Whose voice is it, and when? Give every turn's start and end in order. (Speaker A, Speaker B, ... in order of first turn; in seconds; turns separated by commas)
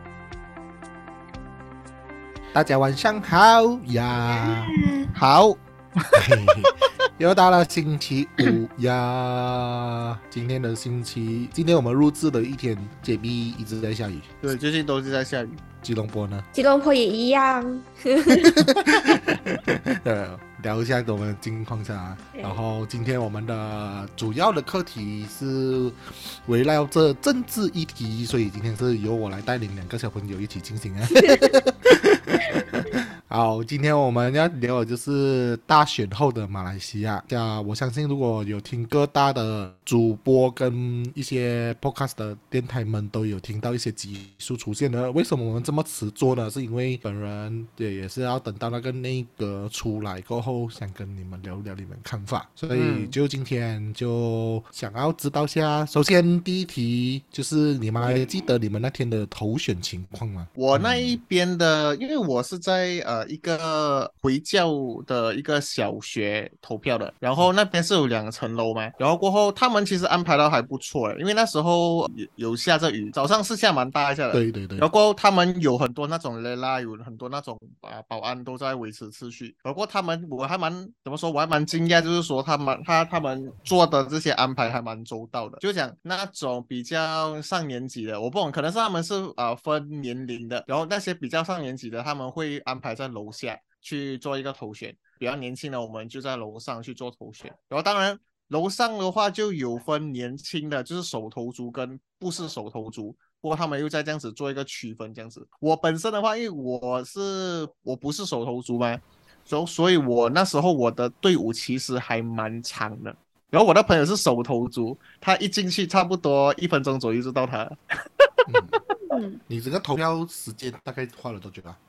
Speaker A: 2.5-4.7, Speaker B: 4.5-5.1, Speaker C: 5.1-6.7, Speaker A: 6.2-14.3, Speaker C: 14.4-15.6, Speaker A: 15.8-16.5, Speaker B: 16.5-18.5, Speaker A: 18.4-61.2, Speaker B: 31.1-31.6, Speaker C: 52.7-53.1, Speaker C: 60.5-118.8, Speaker A: 74.3-74.9, Speaker A: 118.5-118.8, Speaker B: 119.0-119.4, Speaker A: 119.5-121.8